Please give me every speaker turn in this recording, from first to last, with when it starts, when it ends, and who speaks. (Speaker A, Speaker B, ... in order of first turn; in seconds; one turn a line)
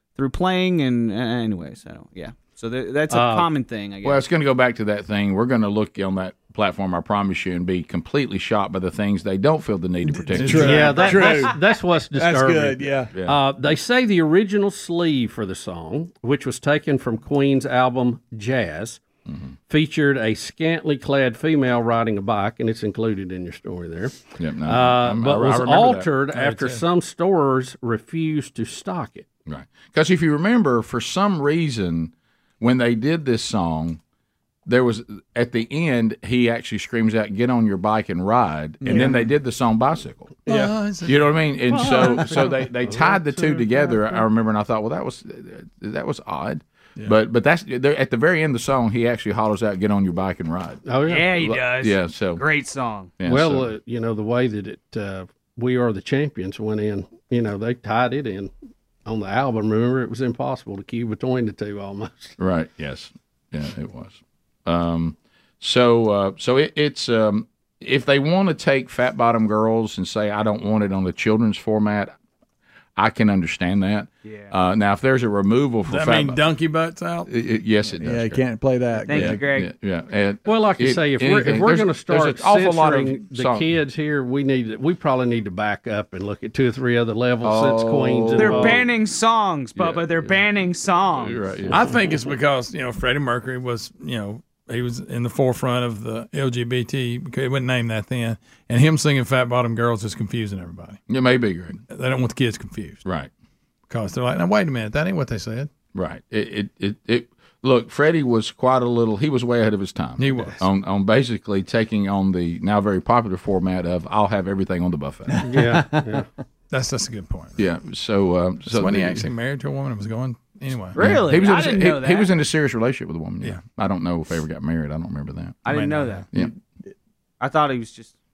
Speaker A: 0.2-4.2
Speaker B: 3.1-3.5
Speaker C: 4.0-11.1
Speaker D: 10.1-11.6
Speaker E: 10.4-11.2
Speaker B: 10.6-19.0
Speaker D: 12.1-13.1
Speaker C: 13.1-13.4
Speaker C: 19.3-19.6
Speaker B: 19.7-29.3
Speaker C: 24.4-26.1
Speaker E: 26.3-26.8
Speaker C: 29.5-34.0
Speaker C: 34.7-40.5
Speaker D: 38.8-39.2
Speaker E: 40.5-41.4
Speaker C: 41.1-52.4
Speaker B: 41.9-43.6
Speaker B: 50.9-51.3
Speaker A: 51.1-53.1
Speaker C: 53.2-53.7
Speaker B: 53.2-58.5
Speaker B: 59.0-62.4
Speaker C: 62.4-72.1
Speaker C: 73.0-76.4
Speaker A: 74.3-74.5
Speaker E: 75.9-77.3
Speaker C: 77.3-78.4
Speaker D: 78.0-79.4
Speaker A: 79.1-79.7
Speaker C: 79.1-83.7
Speaker B: 80.5-88.8
Speaker C: 87.4-88.9
Speaker A: 88.4-91.5
Speaker C: 89.8-90.4
Speaker C: 91.2-91.8
Speaker E: 91.7-101.0
Speaker C: 101.1-101.8
Speaker E: 101.9-103.0
Speaker C: 103.0-103.3
Speaker E: 103.9-105.7
Speaker C: 105.9-115.5
Speaker E: 110.2-110.6
Speaker B: 115.4-116.3
Speaker E: 116.7-117.6
Speaker C: 117.6-119.3
Speaker E: 118.7-121.0
Speaker A: 121.0-122.3
Speaker C: 121.0-125.6
Speaker A: 125.7-126.3
Speaker E: 125.7-126.2
Speaker A: 127.4-128.1